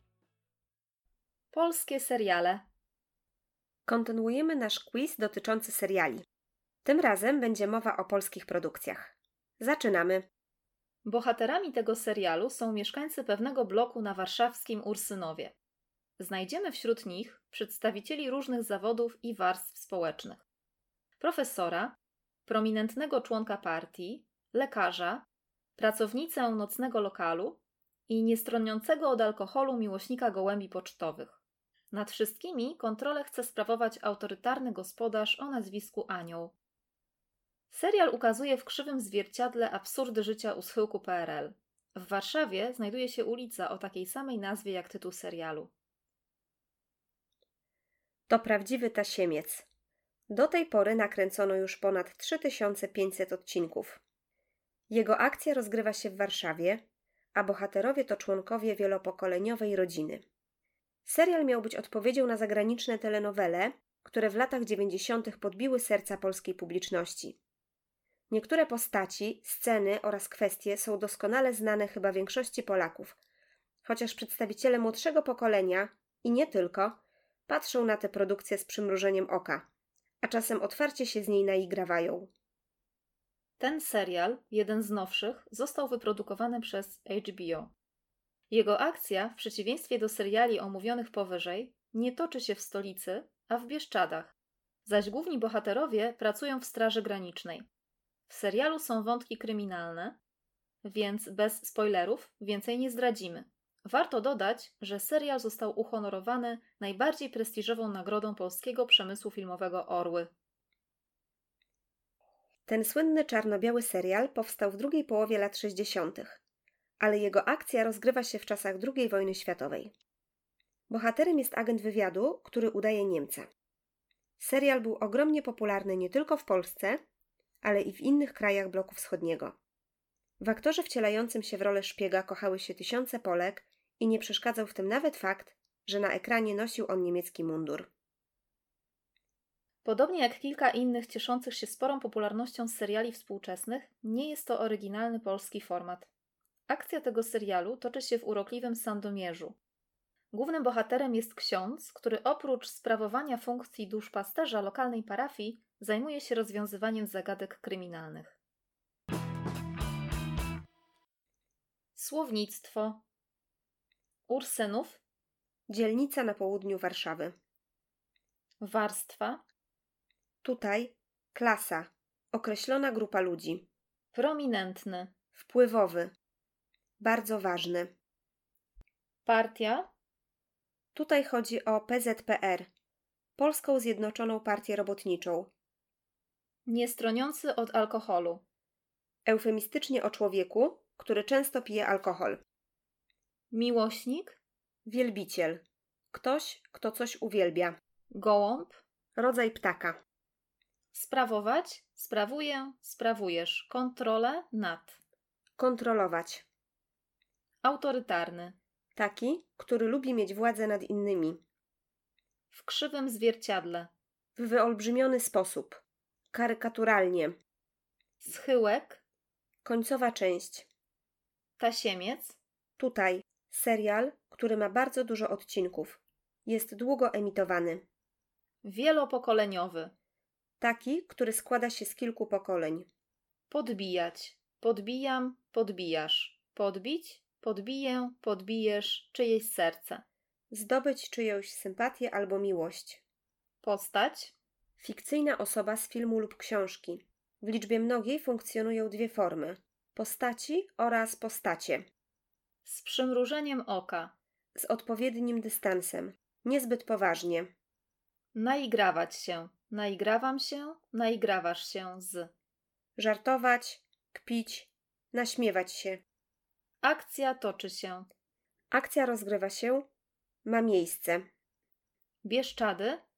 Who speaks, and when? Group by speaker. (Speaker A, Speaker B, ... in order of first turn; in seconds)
Speaker A: 1.5-2.6, 11.1-15.6, 16.2-20.4, 21.2-25.3, 25.8-31.4, 31.9-36.5, 37.7-45.7, 83.6-87.7, 88.5-94.3, 94.8-97.7, 98.3-100.2, 100.8-110.3, 139.8-146.1, 146.7-149.6, 150.3-158.4, 161.9-163.0, 164.3-165.0, 168.6-169.4, 174.1-175.1, 179.2-179.9, 186.7-188.4, 193.5-194.4, 198.1-198.8, 200.9-205.0, 207.6-208.6, 212.5-213.9, 218.2-219.0, 221.6-222.4, 228.6-229.9, 233.5-240.0, 243.6-244.3, 252.7-254.1, 258.4-262.3, 266.8-268.1, 272.2-273.0
Speaker B: 3.9-6.2, 6.8-10.3, 48.3-49.6, 50.3-54.0, 54.9-56.8, 57.4-60.2, 61.0-67.4, 68.3-73.2, 73.8-79.6, 80.2-82.3, 112.7-116.4, 117.0-119.9, 120.9-123.5, 124.4-127.0, 127.6-129.6, 130.4-137.9, 165.7-167.3, 170.4-173.7, 175.3-176.1, 177.0-177.9, 180.9-182.7, 183.4-185.5, 189.3-192.4, 194.8-197.8, 199.2-200.0, 205.6-206.5, 209.0-211.4, 214.4-217.4, 219.6-220.7, 222.8-227.8, 230.6-232.9, 240.5-243.0, 244.8-251.9, 254.6-257.5, 263.0-266.0, 268.7-269.9, 270.4-271.2